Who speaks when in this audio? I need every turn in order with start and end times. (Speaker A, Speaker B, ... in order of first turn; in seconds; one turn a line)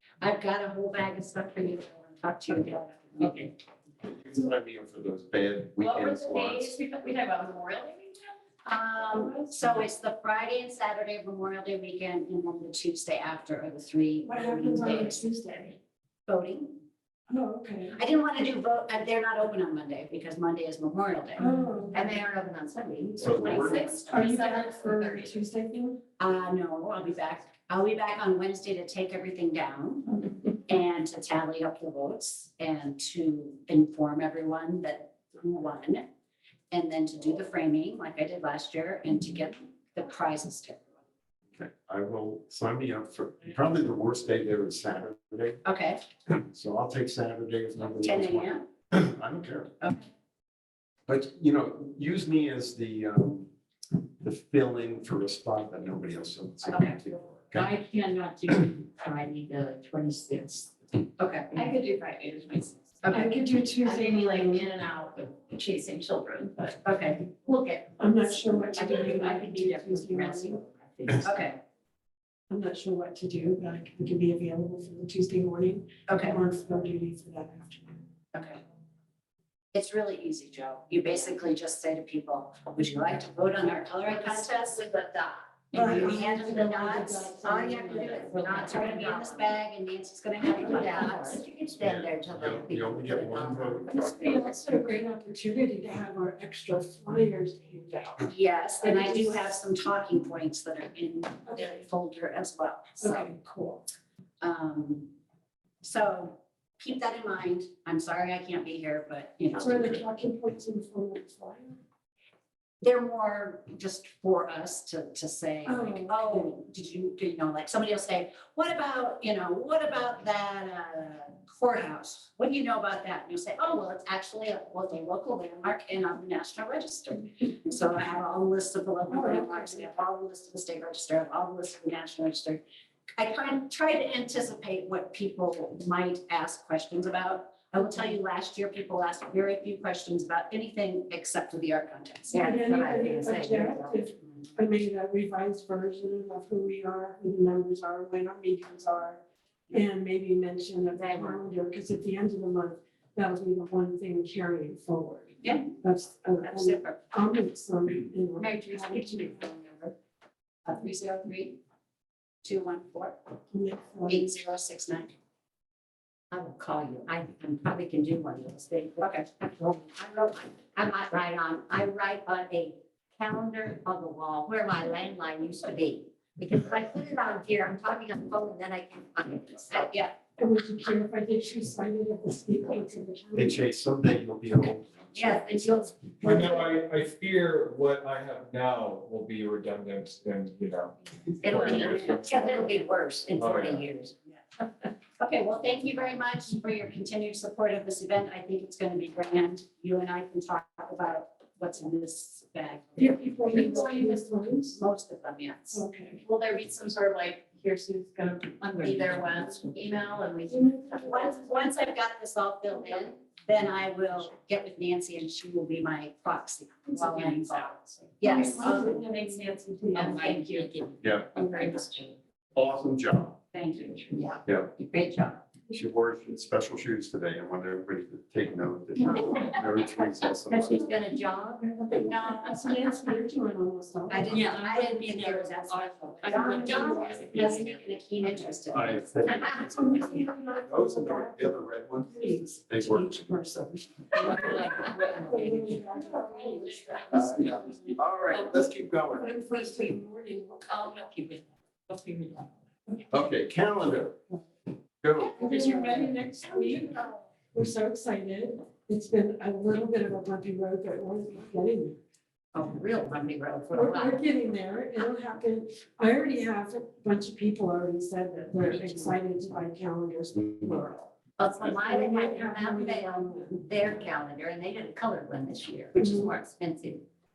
Speaker A: 0.2-3.5
Speaker B: 3.2-3.5
Speaker C: 4.0-6.8
Speaker B: 5.8-8.2
Speaker A: 8.6-15.2
Speaker D: 14.2-15.8
Speaker A: 16.3-16.8
Speaker D: 17.3-18.0
Speaker A: 17.9-21.5
Speaker D: 21.4-22.1
Speaker E: 21.9-24.4
Speaker C: 23.2-24.0
Speaker B: 23.3-25.4
Speaker D: 24.1-26.0
Speaker A: 26.2-36.0
Speaker A: 36.7-40.8
Speaker C: 41.5-45.6
Speaker A: 45.6-46.0
Speaker C: 46.3-49.7
Speaker A: 48.0-48.6
Speaker A: 49.8-50.1
Speaker C: 51.1-53.5
Speaker C: 54.2-57.7
Speaker B: 56.7-57.0
Speaker B: 57.5-58.9
Speaker E: 59.0-60.7
Speaker A: 61.2-61.6
Speaker B: 61.5-66.8
Speaker A: 63.0-63.4
Speaker D: 63.1-64.7
Speaker A: 66.8-67.2
Speaker B: 67.5-68.1
Speaker D: 68.0-70.6
Speaker E: 68.3-71.3
Speaker B: 68.7-70.3
Speaker A: 71.2-71.6
Speaker D: 72.5-78.0
Speaker A: 76.1-76.4
Speaker A: 78.3-78.6
Speaker A: 79.7-85.1
Speaker D: 85.7-88.4
Speaker A: 85.7-91.4
Speaker E: 88.0-89.4
Speaker E: 90.5-94.7
Speaker C: 91.8-94.0
Speaker D: 93.9-98.3
Speaker A: 98.2-103.3
Speaker D: 98.8-99.5
Speaker D: 101.5-101.8
Speaker D: 103.0-103.8
Speaker A: 104.4-105.1
Speaker A: 105.8-110.0
Speaker D: 109.6-111.8
Speaker A: 112.8-132.6
Speaker D: 115.6-116.5
Speaker D: 129.1-129.8
Speaker A: 133.2-142.7
Speaker D: 142.3-159.5
Speaker E: 142.4-144.0
Speaker E: 150.9-151.4
Speaker E: 156.4-157.0
Speaker E: 158.4-159.9
Speaker A: 160.6-161.6
Speaker A: 162.4-163.2
Speaker D: 163.5-164.3
Speaker A: 164.1-165.1
Speaker E: 166.3-180.1
Speaker A: 169.0-169.3
Speaker D: 180.4-183.6
Speaker C: 183.3-185.4
Speaker E: 185.1-186.6
Speaker F: 186.2-192.4
Speaker E: 191.4-194.2
Speaker F: 193.3-193.8
Speaker A: 195.2-204.2
Speaker D: 202.9-204.8
Speaker B: 203.5-204.1
Speaker A: 204.7-205.8
Speaker D: 205.7-206.2
Speaker B: 206.2-211.5
Speaker A: 208.9-209.6
Speaker D: 210.5-211.0
Speaker A: 211.0-219.1
Speaker B: 216.9-220.7
Speaker D: 218.2-220.2
Speaker E: 219.9-221.9
Speaker C: 221.0-221.3
Speaker B: 221.4-222.1
Speaker C: 222.5-223.4
Speaker A: 223.5-224.2
Speaker E: 224.1-225.4
Speaker C: 224.4-224.7
Speaker C: 225.7-230.9
Speaker E: 229.0-229.5
Speaker E: 230.5-232.2
Speaker D: 231.9-234.6
Speaker A: 231.9-232.8
Speaker A: 234.1-239.1
Speaker B: 234.3-237.7
Speaker E: 236.2-237.8
Speaker D: 236.3-237.6
Speaker C: 238.7-243.2
Speaker E: 239.4-240.0
Speaker D: 239.6-241.6
Speaker D: 242.1-242.5
Speaker E: 242.5-245.8
Speaker D: 244.2-247.9
Speaker B: 244.2-245.3
Speaker E: 246.3-247.3
Speaker C: 247.1-249.4
Speaker D: 249.1-250.9
Speaker E: 249.5-249.9
Speaker E: 250.7-251.4
Speaker B: 251.9-252.4
Speaker C: 253.1-254.2
Speaker C: 255.0-255.4
Speaker D: 255.3-262.0
Speaker E: 255.4-256.1
Speaker E: 262.5-264.2
Speaker D: 263.7-271.1
Speaker E: 268.6-269.1
Speaker E: 271.4-277.0
Speaker D: 271.8-273.5
Speaker D: 275.9-276.3